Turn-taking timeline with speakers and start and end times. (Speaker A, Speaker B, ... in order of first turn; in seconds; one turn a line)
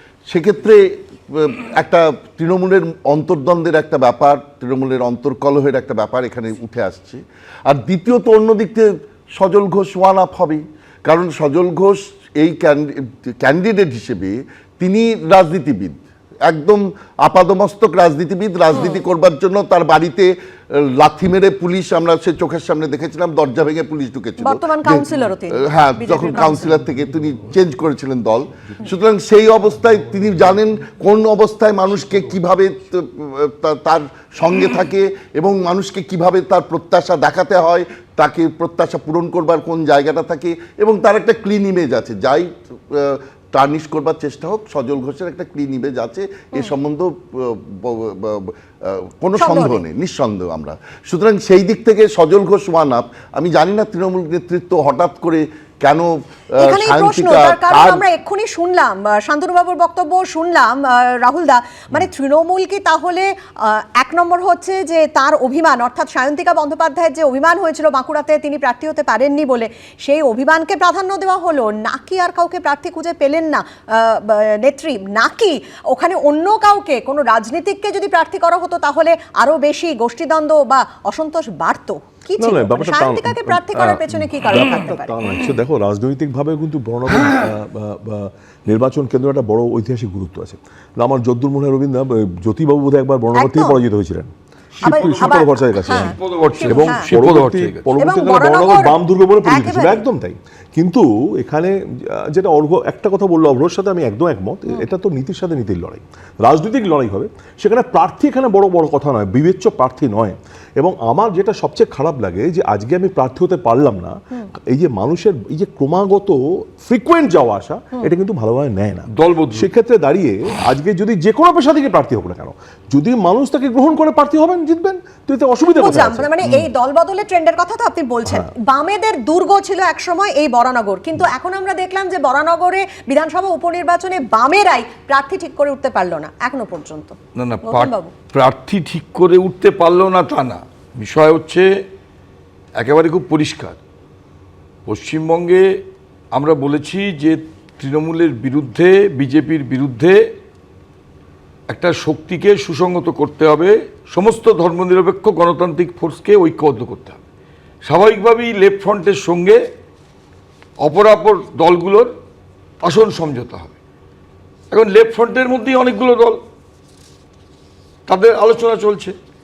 Speaker A: 0.3-16.0
Speaker A: 16.5-58.0
Speaker B: 18.7-19.0
Speaker B: 24.4-26.8
Speaker B: 49.4-49.8
Speaker B: 56.6-85.1
Speaker C: 82.4-94.3
Speaker B: 93.3-93.8
Speaker D: 94.8-95.3
Speaker B: 94.8-97.1
Speaker C: 94.8-126.7
Speaker D: 96.1-97.9
Speaker B: 98.0-100.0
Speaker D: 119.1-119.7
Speaker B: 125.7-138.1
Speaker D: 137.4-141.7
Speaker D: 142.8-143.8
Speaker D: 144.9-150.3
Speaker D: 151.7-157.2
Speaker D: 157.8-159.6
Speaker D: 160.8-162.2
Speaker D: 162.8-163.7
Speaker D: 164.7-166.4
Speaker D: 168.1-169.2